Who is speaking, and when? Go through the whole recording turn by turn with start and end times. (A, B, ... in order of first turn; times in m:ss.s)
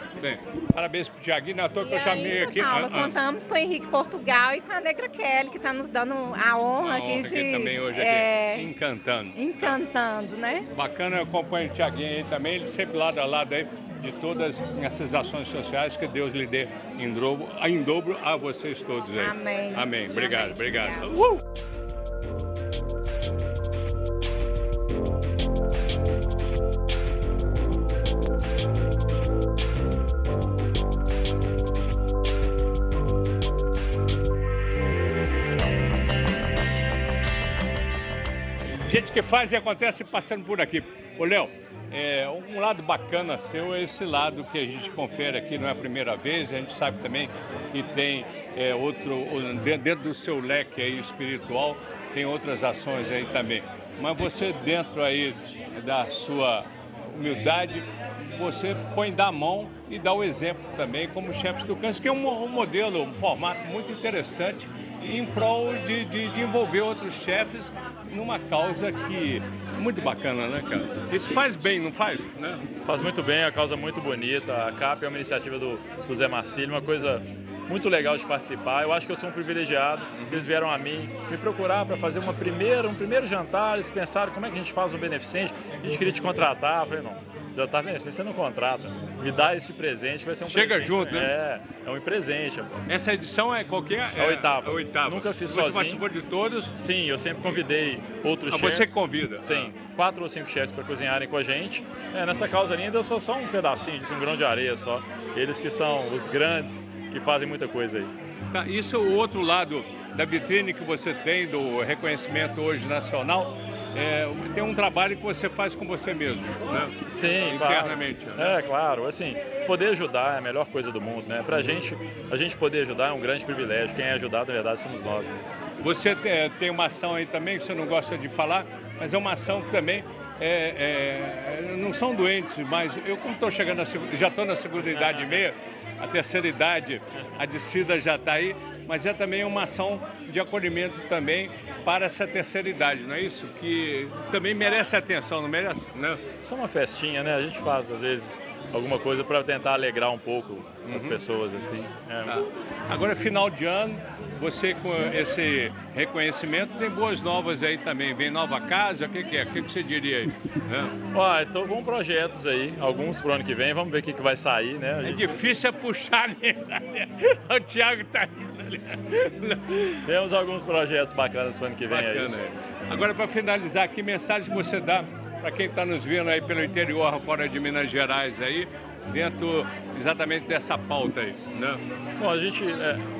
0:00.2-0:03.2 A
0:01.8-0:08.7 B
0:06.8-0:09.8 A
0:09.4-0:10.7 B
0:10.7-0:21.4 A
0:19.2-0:21.1 B
0:38.6-1:12.6 A
1:12.8-1:32.9 C
1:20.2-1:20.5 A
1:30.5-1:31.3 A
1:32.9-1:36.7 A
1:34.2-1:36.0 C
1:36.8-1:48.1 C
1:38.5-1:39.7 A
1:48.5-1:58.6 A
1:57.2-2:05.4 C
2:05.8-2:26.2 A
2:14.8-2:15.4 C
2:26.4-2:32.4 C
2:30.9-2:31.2 A
2:32.3-2:41.0 A
2:41.1-2:45.4 C
2:45.0-2:50.1 A
2:50.0-2:52.4 C
2:51.9-3:01.8 A
3:02.2-3:03.0 C